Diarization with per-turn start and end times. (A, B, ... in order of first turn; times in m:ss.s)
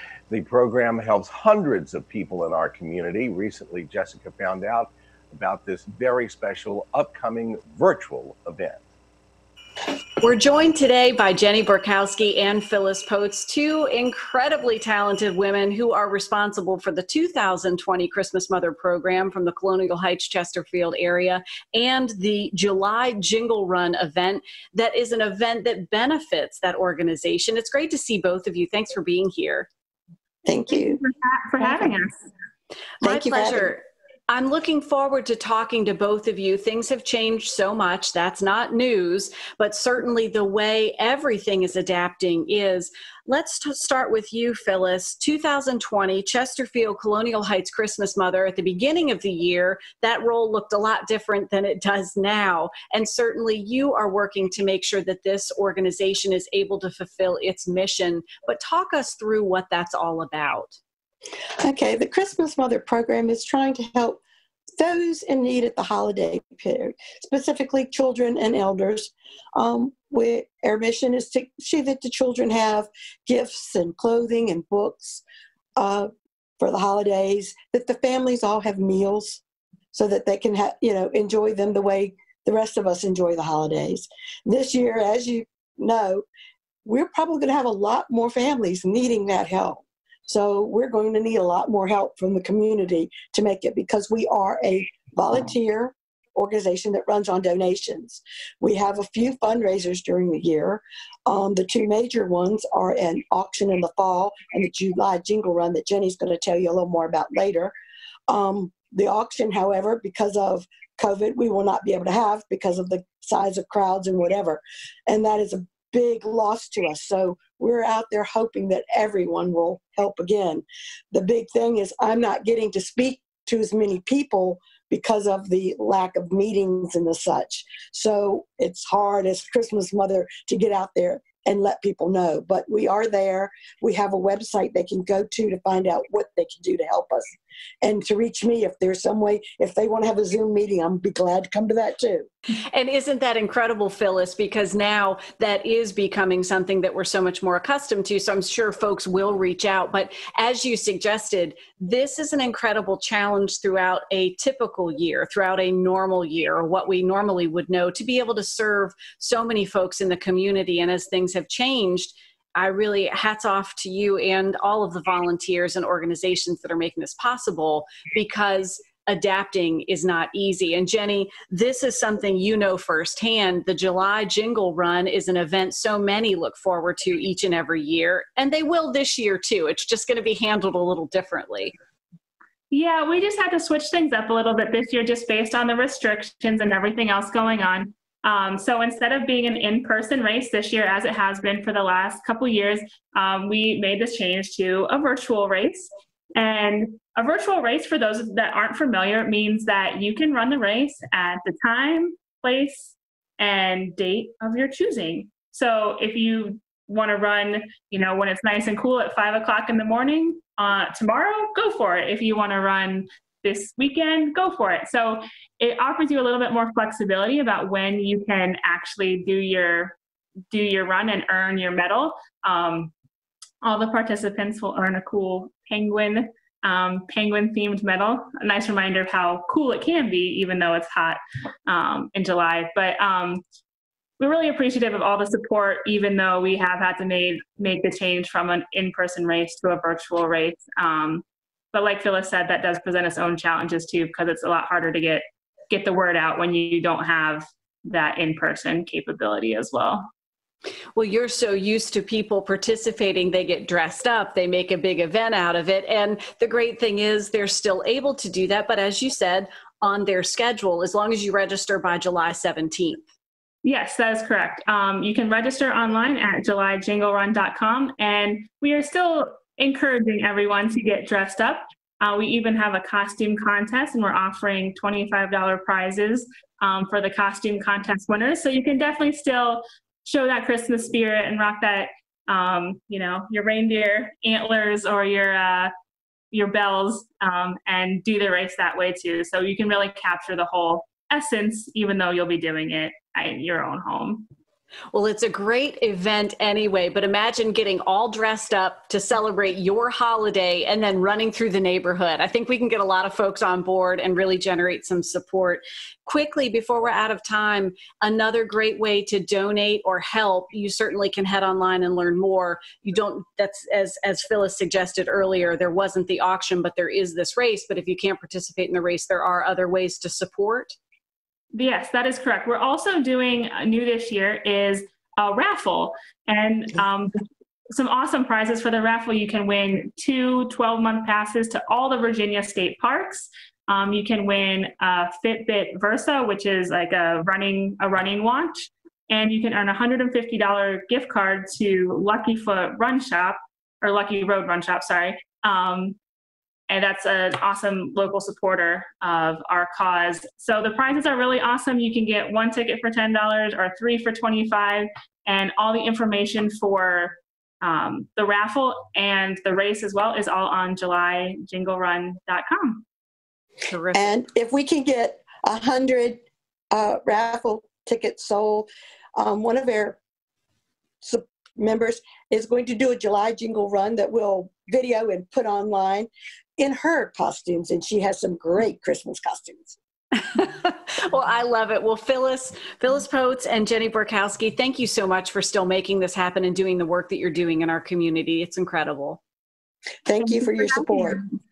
0:00.3-0:08.8 A
0:10.2-0:29.7 B
0:30.4-0:31.0 C
0:30.7-0:32.1 D
0:31.6-0:31.9 C
0:33.0-1:00.8 B
0:33.0-0:33.7 C
1:01.6-1:04.2 C
1:04.8-1:15.2 C
1:15.8-1:16.1 C
1:16.6-1:19.4 C
1:19.9-1:26.2 C
1:26.8-1:47.7 C
1:48.3-2:17.3 C
2:17.8-2:22.3 C
2:22.7-3:01.7 B
3:02.7-3:40.0 D
3:40.5-3:42.9 D
3:43.6-3:53.4 D
3:54.2-4:10.1 D
4:10.9-4:23.0 B
4:23.6-4:45.7 D
4:46.3-4:54.3 D
4:54.9-5:20.7 B
5:21.5-5:27.1 D
5:27.7-5:46.0 D
5:46.7-6:02.8 D
6:03.6-6:04.2 B
6:03.9-6:10.0 C
6:11.0-6:19.8 C
6:20.2-6:29.2 B
6:30.0-6:31.2 C
6:30.3-6:31.2 D